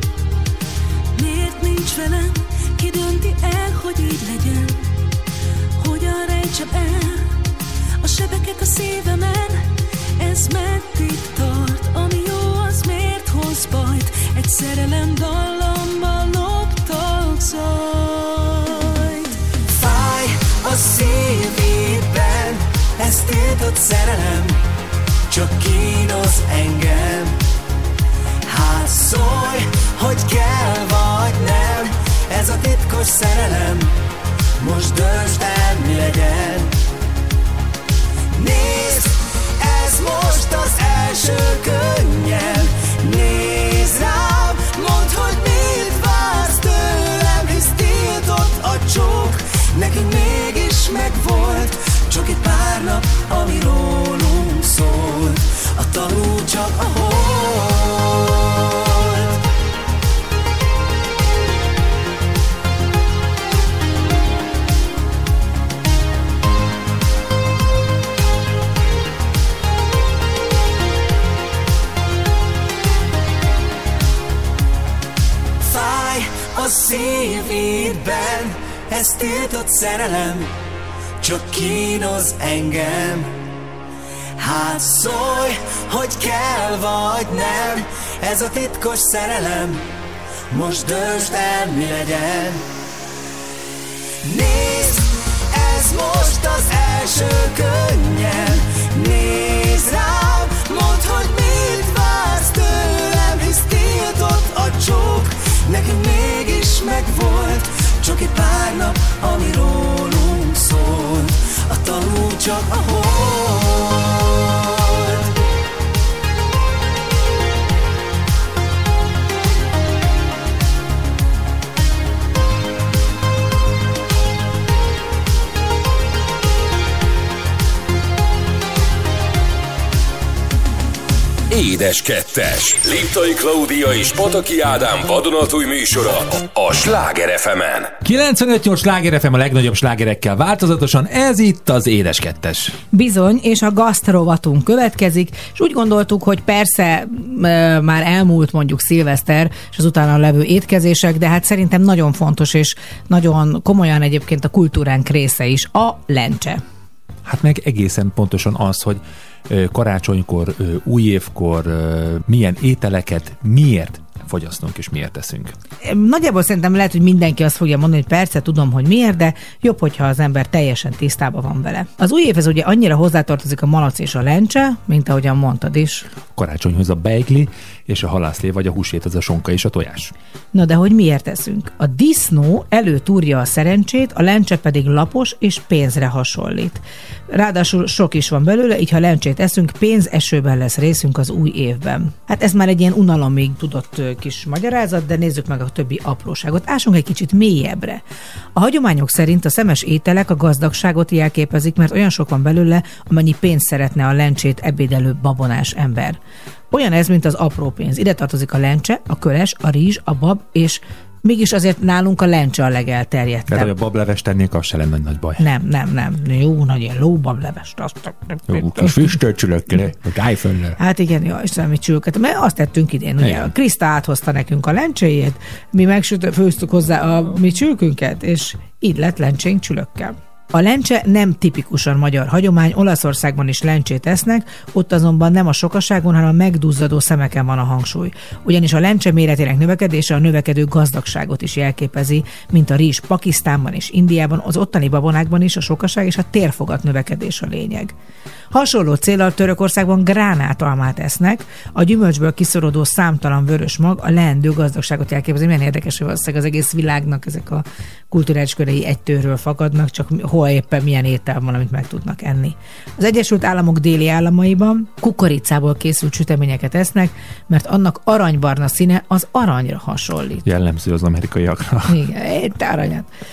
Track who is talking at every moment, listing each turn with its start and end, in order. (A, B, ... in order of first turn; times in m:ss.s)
0:01.2-0:04.8 A
0:05.8-0:07.3 A
0:08.0-0:19.3 A
0:19.7-0:24.6 B
0:25.3-0:27.3 B
0:28.5-0:33.9 B
0:34.6-0:36.7 B
0:38.4-0:59.1 B
1:15.6-1:20.5 B
1:21.2-1:23.3 B
1:24.4-1:29.9 B
1:30.5-1:32.6 B
1:34.2-1:55.2 B
2:11.5-2:17.9 C
2:18.0-2:22.8 D
2:22.9-2:36.6 E
2:37.2-2:45.5 D
2:45.8-2:56.0 E
2:56.3-3:00.1 D
3:00.5-3:18.0 E
3:18.6-3:26.2 E
3:26.7-3:33.7 E
3:33.5-3:35.4 D
3:35.4-3:39.2 E
3:38.5-3:40.8 D
3:40.8-4:07.9 E
3:43.2-3:43.5 D
4:08.5-4:30.4 E
4:30.4-4:32.0 D
4:31.9-4:33.1 E